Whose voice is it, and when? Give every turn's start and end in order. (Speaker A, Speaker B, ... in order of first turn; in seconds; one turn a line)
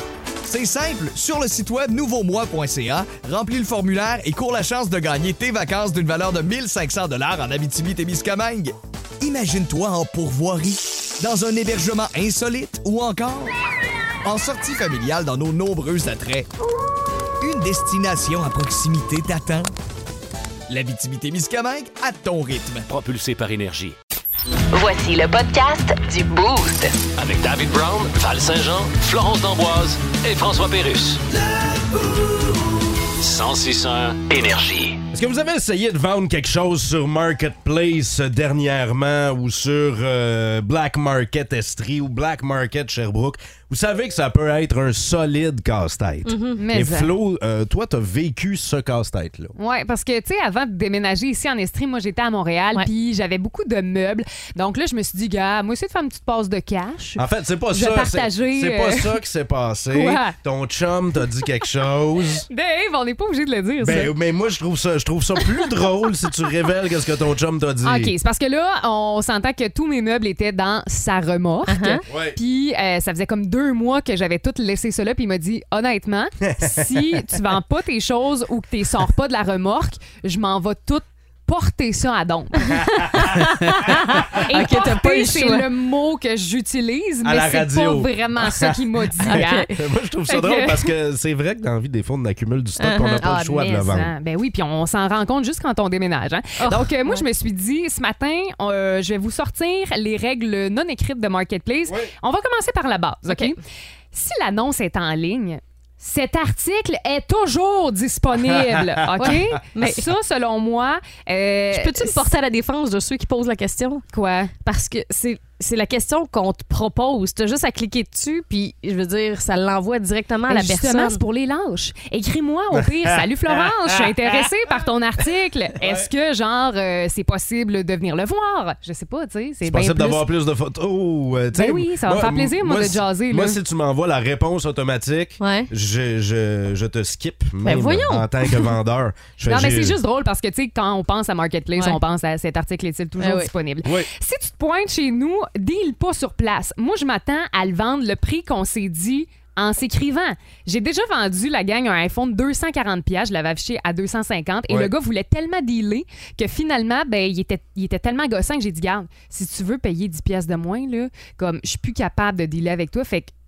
Speaker A: 0.4-13.5
Speaker A: 14.2-16.5
Speaker A: 17.4-19.7
Speaker A: 20.7-22.9
Speaker B: 22.9-23.9
Speaker C: 24.7-27.0
Speaker B: 27.2-31.2
Speaker B: 33.2-35.0
Speaker D: 35.1-49.5
Speaker E: 46.2-46.6
Speaker F: 46.6-47.1
Speaker F: 49.6-59.2
Speaker D: 57.2-62.5
Speaker F: 59.9-60.4
Speaker F: 62.5-64.1
Speaker D: 63.8-68.1
Speaker F: 67.8-89.7
Speaker E: 71.7-72.0
Speaker D: 72.1-72.4
Speaker D: 76.5-77.2
Speaker D: 82.9-83.3
Speaker E: 83.2-85.7
Speaker D: 87.2-94.1
Speaker E: 89.2-89.7
Speaker F: 90.3-90.9
Speaker E: 92.8-93.3
Speaker F: 93.2-103.6
Speaker E: 96.6-97.3
Speaker E: 103.3-103.6
Speaker F: 104.1-112.3
Speaker E: 109.2-110.1
Speaker E: 111.7-114.0
Speaker F: 114.1-114.5
Speaker E: 114.6-121.2
Speaker F: 120.5-130.2
Speaker D: 122.7-124.5
Speaker D: 125.8-126.1
Speaker D: 129.6-140.0
Speaker F: 131.5-133.6
Speaker E: 135.4-135.7
Speaker E: 137.6-138.7
Speaker F: 139.5-163.3
Speaker E: 143.2-143.5
Speaker D: 143.8-144.1